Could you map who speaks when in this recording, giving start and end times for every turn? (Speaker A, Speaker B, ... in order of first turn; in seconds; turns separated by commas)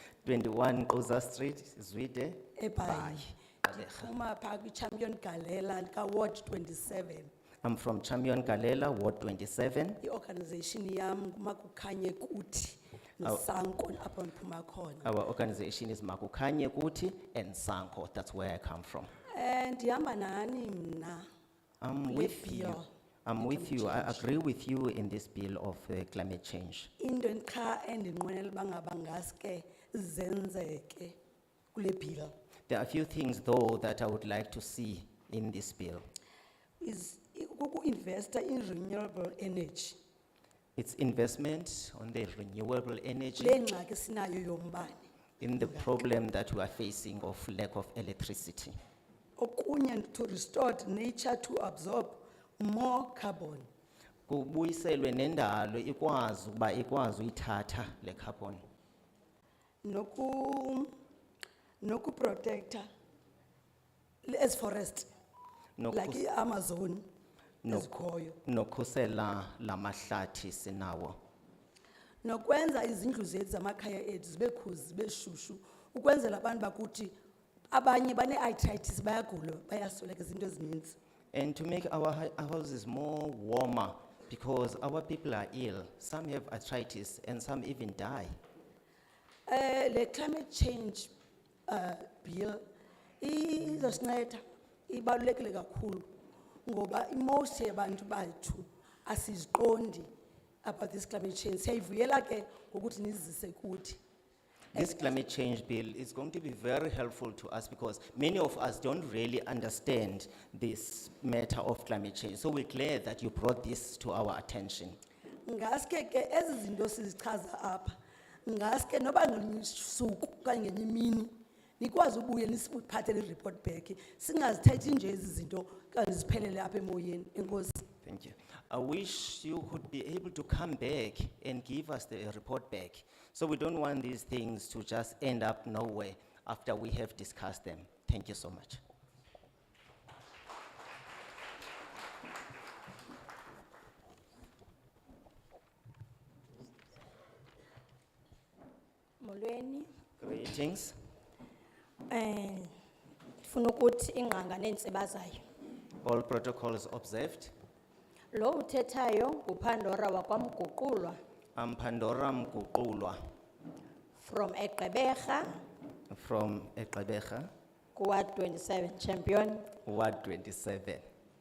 Speaker A: 0.2-4.1, Speaker B: 2.6-7.3, Speaker A: 7.6-10.0, Speaker B: 10.0-15.1, Speaker A: 15.0-19.1, Speaker B: 19.3-21.2, Speaker A: 21.8-26.9, Speaker B: 22.1-22.9, Speaker B: 23.4-24.3, Speaker B: 27.0-31.1, Speaker B: 31.7-32.3, Speaker A: 32.7-36.0, Speaker B: 36.8-40.0, Speaker A: 40.8-43.6, Speaker B: 43.4-45.0, Speaker A: 45.4-48.8, Speaker B: 49.4-53.7, Speaker A: 54.3-58.6, Speaker B: 59.8-60.9, Speaker B: 61.8-62.9, Speaker B: 64.2-65.1, Speaker A: 65.8-66.2, Speaker B: 65.9-67.0, Speaker A: 67.6-71.2, Speaker B: 67.7-68.4, Speaker B: 72.2-77.1, Speaker B: 77.7-81.0, Speaker A: 81.3-88.3, Speaker B: 89.5-91.1, Speaker B: 91.7-92.6, Speaker B: 93.2-96.1, Speaker B: 96.7-100.1, Speaker B: 100.6-104.0, Speaker A: 104.7-115.0, Speaker B: 104.7-105.1, Speaker B: 115.5-117.9, Speaker B: 118.5-127.8, Speaker A: 128.0-138.8, Speaker C: 149.2-149.9, Speaker A: 150.2-150.9, Speaker C: 152.1-152.7, Speaker C: 153.4-155.4, Speaker A: 156.0-157.5, Speaker C: 158.3-161.2, Speaker A: 161.6-163.2, Speaker C: 164.2-165.6, Speaker A: 166.1-167.5, Speaker C: 167.9-169.7, Speaker A: 169.8-171.1